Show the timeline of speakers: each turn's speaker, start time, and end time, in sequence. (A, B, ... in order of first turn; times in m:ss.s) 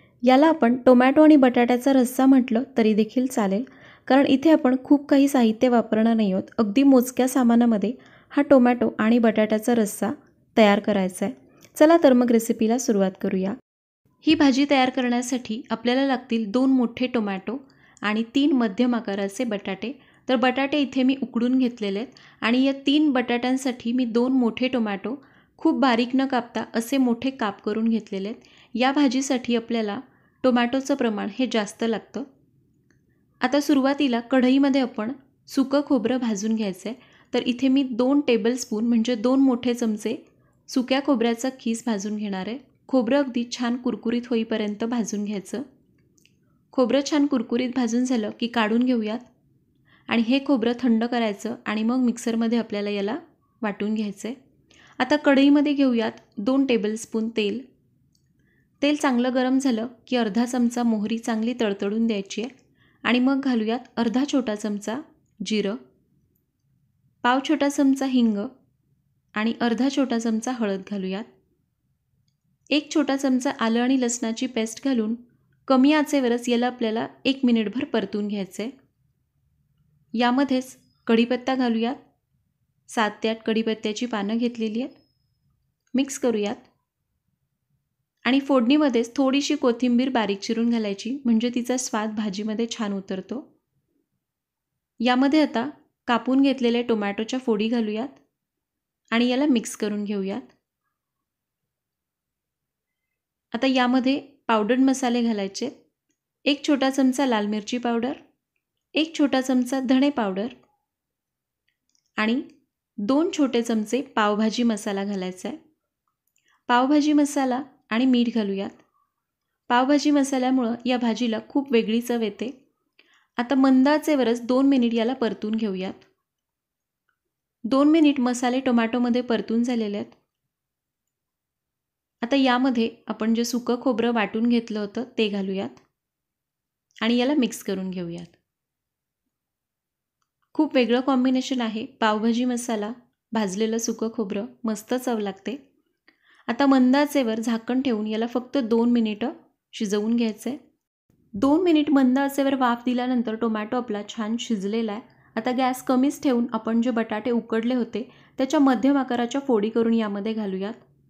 0:00.3-0:13.6 A
0:14.2-0:32.3 A
0:33.4-0:45.6 A
0:46.7-0:49.3 A
0:50.1-0:54.4 A
0:55.0-0:57.6 A
0:58.8-1:02.5 A
1:03.0-1:05.8 A
1:07.2-1:08.5 A
1:09.4-1:11.3 A
1:12.7-1:18.7 A
1:20.2-1:22.0 A
1:22.9-1:25.0 A
1:25.9-1:26.6 A
1:28.2-1:33.4 A
1:35.0-1:38.2 A
1:39.1-1:40.5 A
1:43.5-1:45.7 A
1:46.5-1:48.2 A
1:49.0-1:50.5 A
1:52.2-1:52.4 A
1:53.0-1:55.6 A
1:56.7-1:58.8 A
1:59.7-2:02.5 A
2:03.4-2:06.1 A
2:07.7-2:10.2 A
2:12.2-2:15.8 A
2:17.0-2:18.4 A
2:20.5-2:25.6 A
2:26.5-2:30.6 A
2:31.4-2:40.8 A